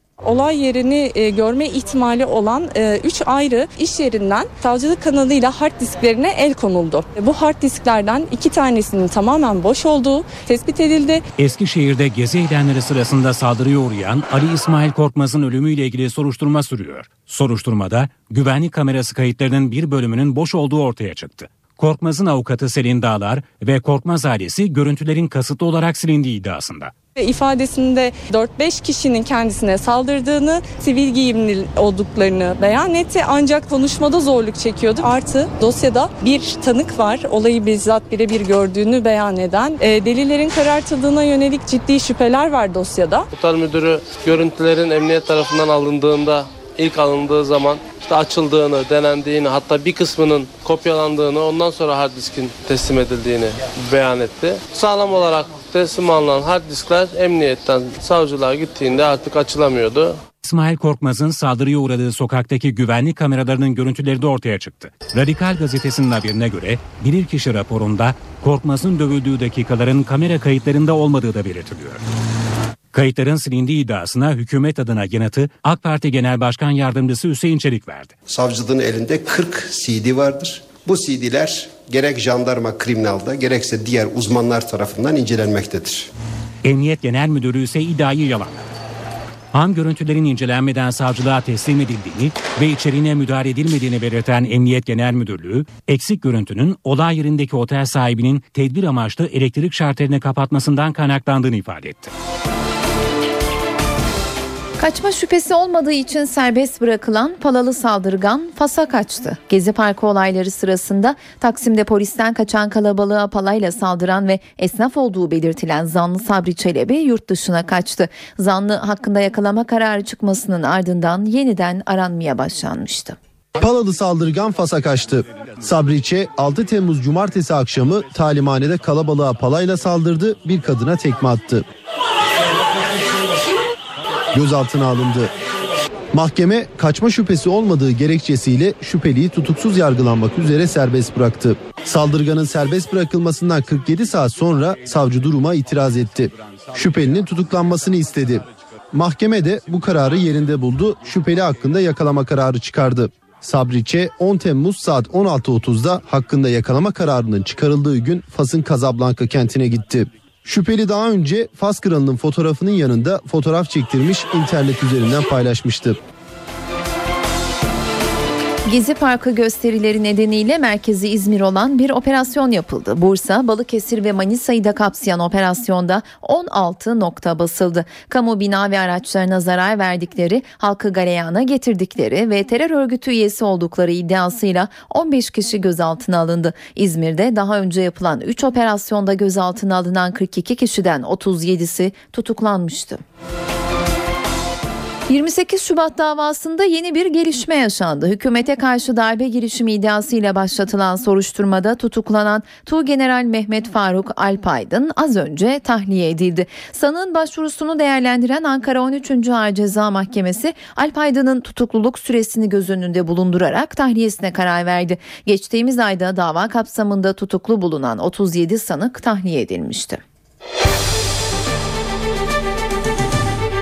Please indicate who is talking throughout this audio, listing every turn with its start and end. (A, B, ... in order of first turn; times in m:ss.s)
0:00.2-0:11.2 A
0:11.4-0:26.9 B
0:27.2-0:43.3 A
0:43.3-1:00.2 C
1:00.4-1:12.0 B
1:12.9-1:18.1 B
1:18.3-1:26.1 D
1:26.6-1:28.7 B
1:29.5-1:42.1 B
1:44.8-2:03.2 E
2:03.6-2:11.6 F
2:14.3-2:15.3 F
2:16.1-2:46.0 F
2:48.6-3:13.0 E
3:15.1-3:40.0 E